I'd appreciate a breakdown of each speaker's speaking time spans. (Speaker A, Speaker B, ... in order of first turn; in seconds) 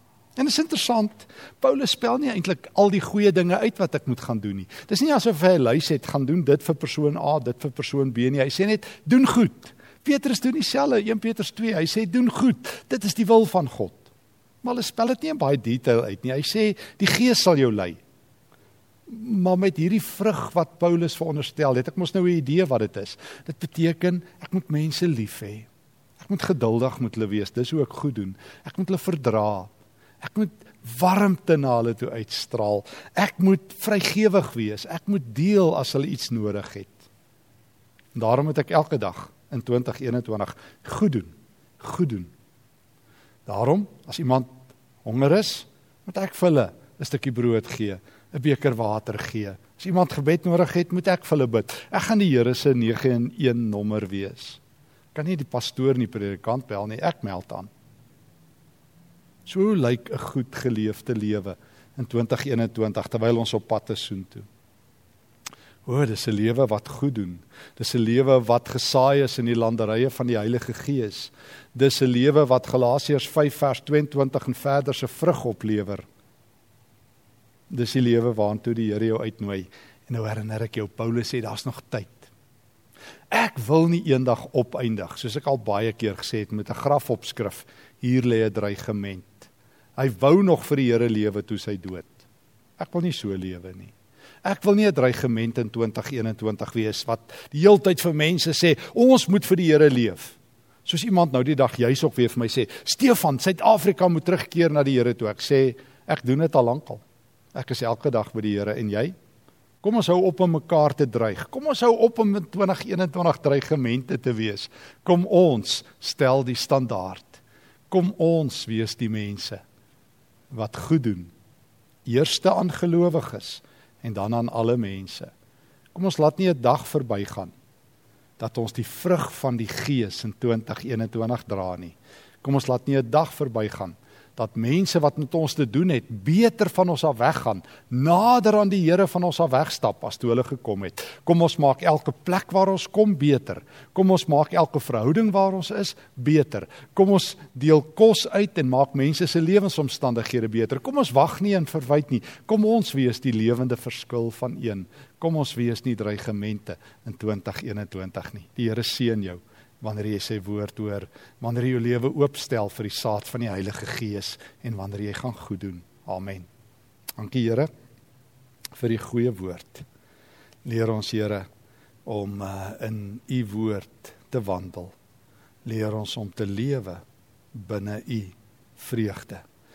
Speaker A: 0.4-14.1, 14.6-18.0, 19.1-25.7, 26.2-29.7, 30.2-37.0, 38.1-42.3, 43.5-54.6, 55.1-57.7, 59.5-64.5, 65.8-76.1, 77.7-82.3, 83.3-92.2, 92.8-107.0, 107.5-109.1, 109.8-119.6, 120.5-121.3, 122.1-125.3, 125.9-127.5, 128.4-166.5, 167.2-167.7, 168.8-169.8, 170.7-171.4, 172.1-174.9, 175.7-177.0, 177.5-179.4